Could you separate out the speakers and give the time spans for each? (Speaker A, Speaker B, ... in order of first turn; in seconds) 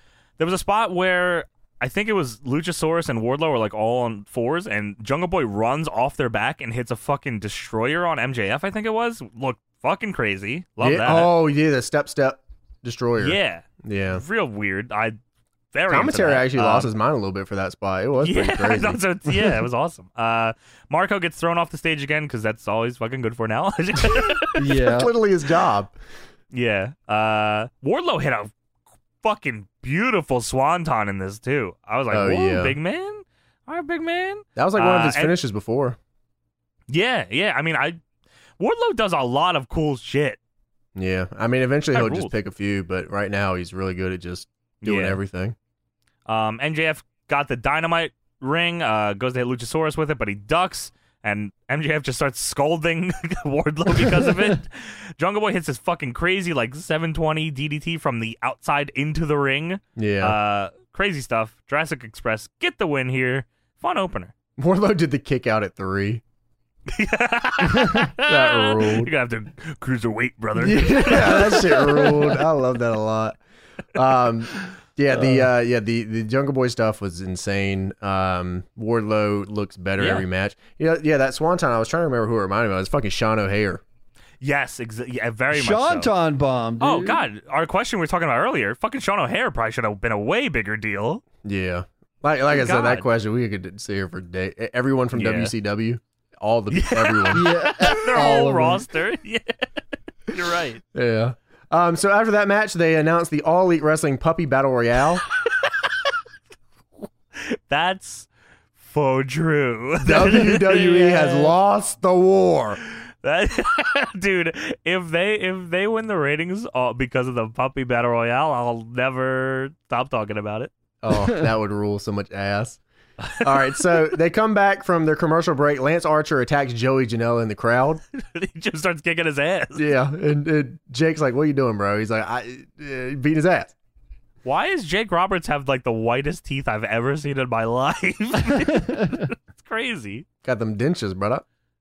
Speaker A: 0.4-11.3, 13.2-15.2, 15.7-16.9, 18.2-24.8, 26.5-28.5, 29.2-35.3, 36.9-38.0, 38.6-40.4, 41.9-42.3, 44.8-45.2, 46.2-64.3, 66.9-72.2, 80.0-80.2, 84.4-86.1, 86.8-91.2, 92.5-93.0, 95.1-95.5, 96.7-99.6, 100.3-100.8, 105.5-105.9, 107.3-108.3, 108.8-111.5, 113.2-120.7, 123.2-123.9, 128.1-129.8, 134.4-140.2
Speaker B: 10.8-14.2, 15.9-19.0, 24.8-25.9, 32.1-32.7, 34.5-36.0, 41.0-45.5, 60.0-60.4, 64.6-66.2, 68.2-69.1, 70.5-73.4, 73.9-83.8, 91.4-97.5, 100.9-105.2, 110.0-112.8, 121.0-122.8, 123.4-128.0, 129.7-133.7, 140.4-141.4
Speaker C: 24.6-25.1, 75.1-75.5, 85.5-87.2, 97.3-98.9, 138.7-139.2